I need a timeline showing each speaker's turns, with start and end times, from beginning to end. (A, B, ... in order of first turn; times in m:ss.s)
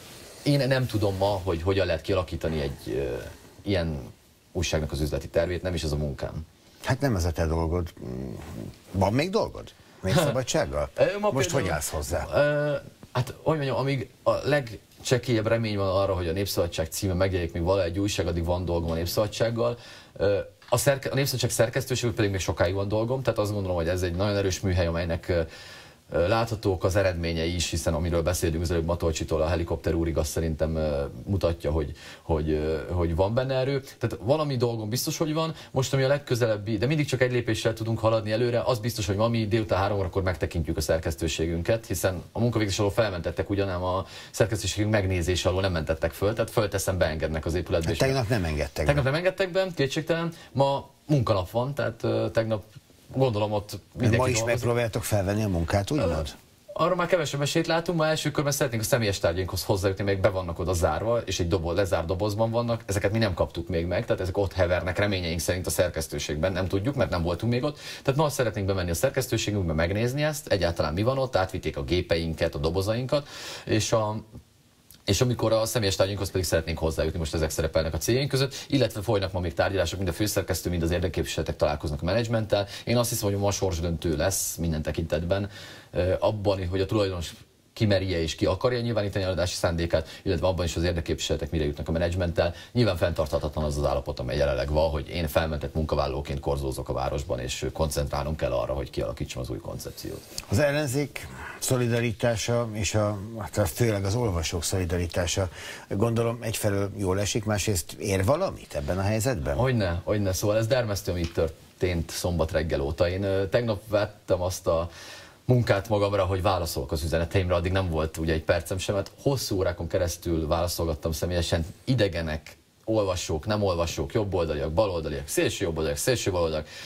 0:00.4-0:06.4 A
0:06.8-0:12.3 B
0:10.1-0:10.4 A
0:11.0-0:25.4 A
0:26.1-0:48.2 A
0:47.8-0:49.0 B
0:48.8-0:54.7 A
0:54.0-0:56.3 B
0:56.0-1:14.2 A
1:15.1-1:40.2 A
1:40.5-1:49.6 B
1:49.5-1:54.9 A
1:55.5-2:06.6 A